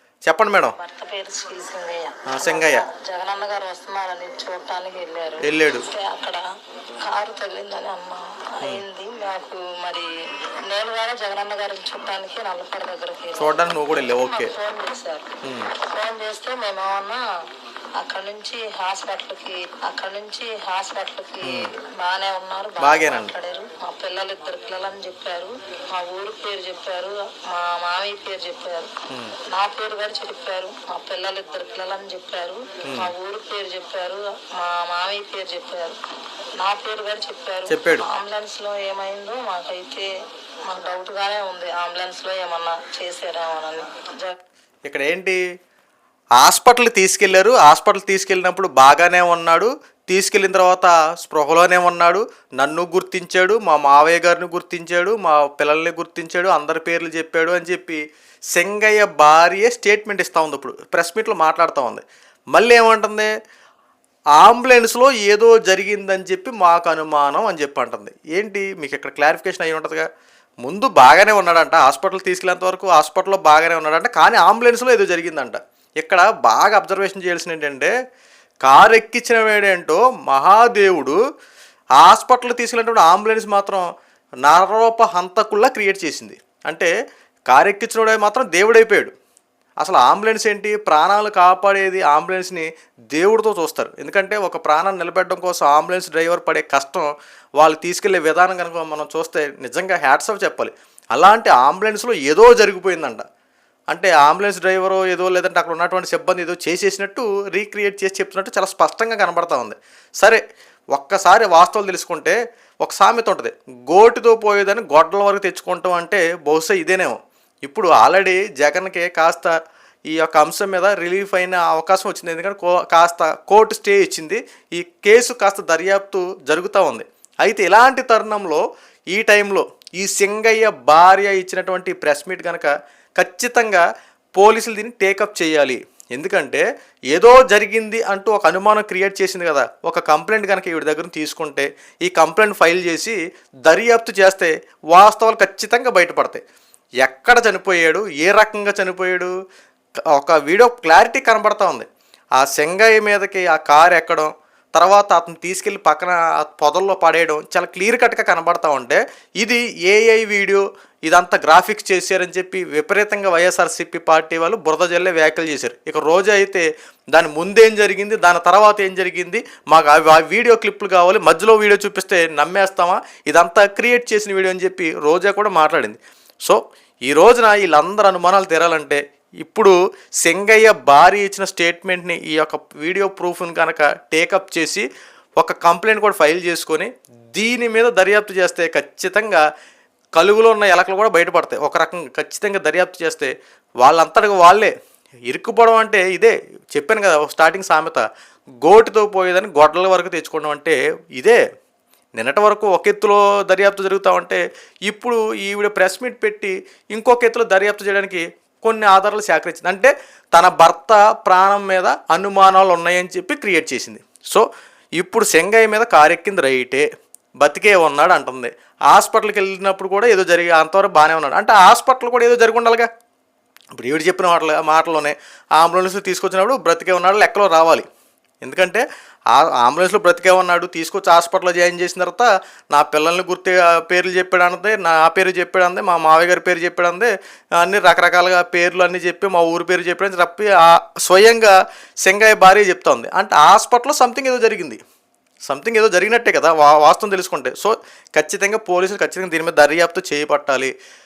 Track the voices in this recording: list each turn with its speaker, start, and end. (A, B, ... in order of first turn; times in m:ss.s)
0:00.3-0:00.8 A
0:00.8-0:06.4 B
0:02.3-0:02.8 A
0:05.4-0:05.9 A
0:07.1-0:10.1 B
0:10.7-0:15.3 B
0:13.4-0:14.5 A
0:15.4-0:15.7 A
0:15.8-0:17.2 B
0:18.0-0:28.9 B
0:21.4-0:21.7 A
0:22.8-0:23.3 A
0:29.1-0:29.4 A
0:29.5-0:36.0 B
0:32.8-0:33.1 A
0:36.6-0:40.1 B
0:37.7-0:38.1 A
0:40.7-0:44.4 B
0:44.8-0:45.4 A
0:46.4-0:58.0 A
0:58.6-1:03.3 A
1:04.4-1:10.1 A
1:10.6-1:17.9 A
1:18.6-1:21.2 A
1:22.0-1:23.9 A
1:24.5-1:26.9 A
1:27.5-1:29.1 A
1:29.8-1:43.2 A
1:43.9-1:50.4 A
1:50.9-1:59.6 A
2:00.1-2:26.4 A
2:27.0-2:29.3 A
2:30.1-3:09.4 A
3:10.2-3:14.7 A
3:15.3-3:18.1 A
3:18.6-3:21.4 A
3:22.2-3:36.9 A
3:37.4-3:42.9 A
3:43.8-3:47.9 A
3:48.4-4:04.8 A
4:05.5-4:10.7 A